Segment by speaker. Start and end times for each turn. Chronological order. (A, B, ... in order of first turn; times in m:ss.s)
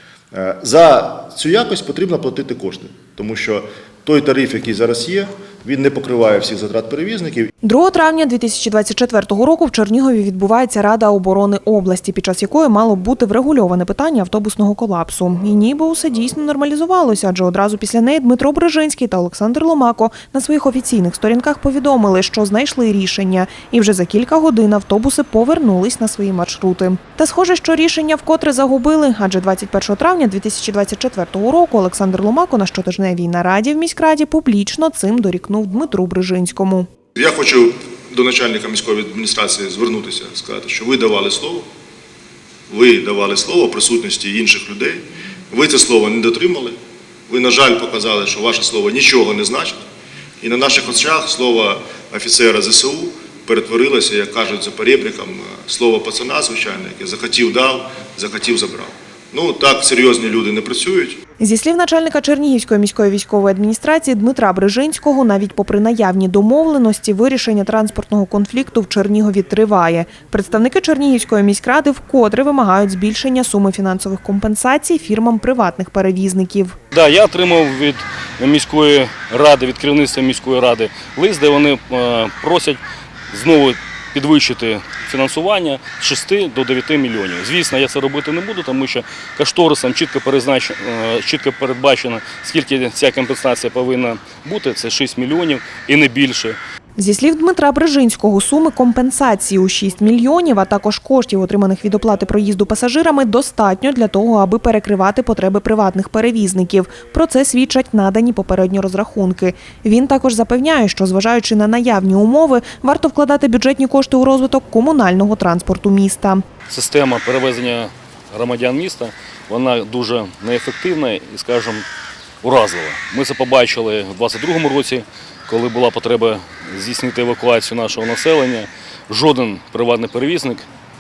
0:00.3-0:07.5 A
0:07.6-0:36.9 B
0:37.1-0:41.6 A
0:42.7-0:46.8 A
0:47.3-0:49.8 A
0:50.4-1:01.2 A
1:01.4-1:16.8 B
1:16.9-1:36.6 C
1:37.0-1:56.4 B
1:56.7-2:01.8 C
2:02.4-2:10.7 C